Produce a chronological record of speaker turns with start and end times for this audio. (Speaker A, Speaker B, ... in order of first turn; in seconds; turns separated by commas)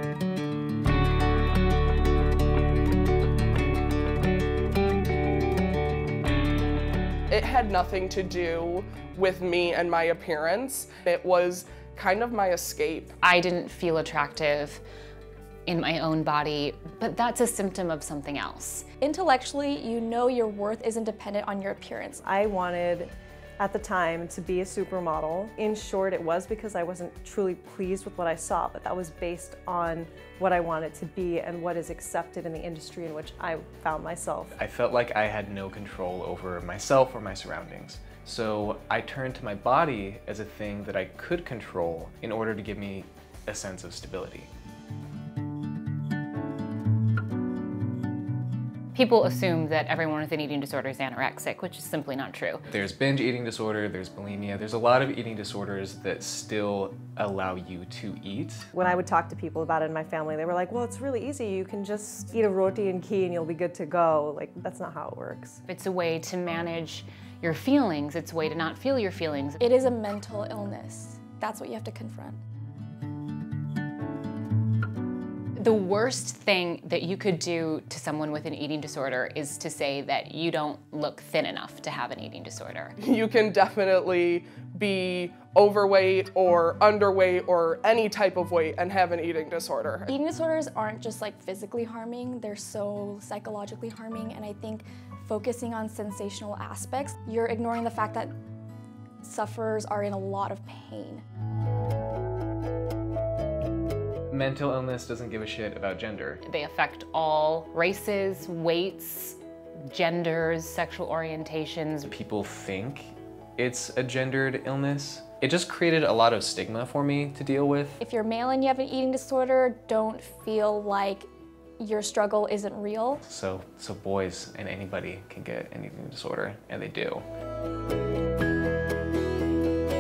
Speaker A: 7.3-13.1, Speaker B: 13.2-14.8, Speaker B: 15.7-18.9, Speaker C: 19.0-22.2, Speaker D: 22.2-34.6, Speaker E: 34.6-44.5, Speaker B: 48.9-52.6, Speaker E: 52.7-58.7, Speaker D: 58.7-65.6, Speaker B: 65.7-69.6, Speaker C: 69.6-72.4, Speaker B: 75.6-83.0, Speaker A: 83.0-90.1, Speaker C: 90.1-98.3, Speaker C: 99.2-101.2, Speaker E: 104.3-106.4, Speaker B: 106.5-112.1, Speaker E: 112.1-118.0, Speaker C: 118.0-121.3, Speaker C: 121.8-123.2, Speaker E: 123.2-127.3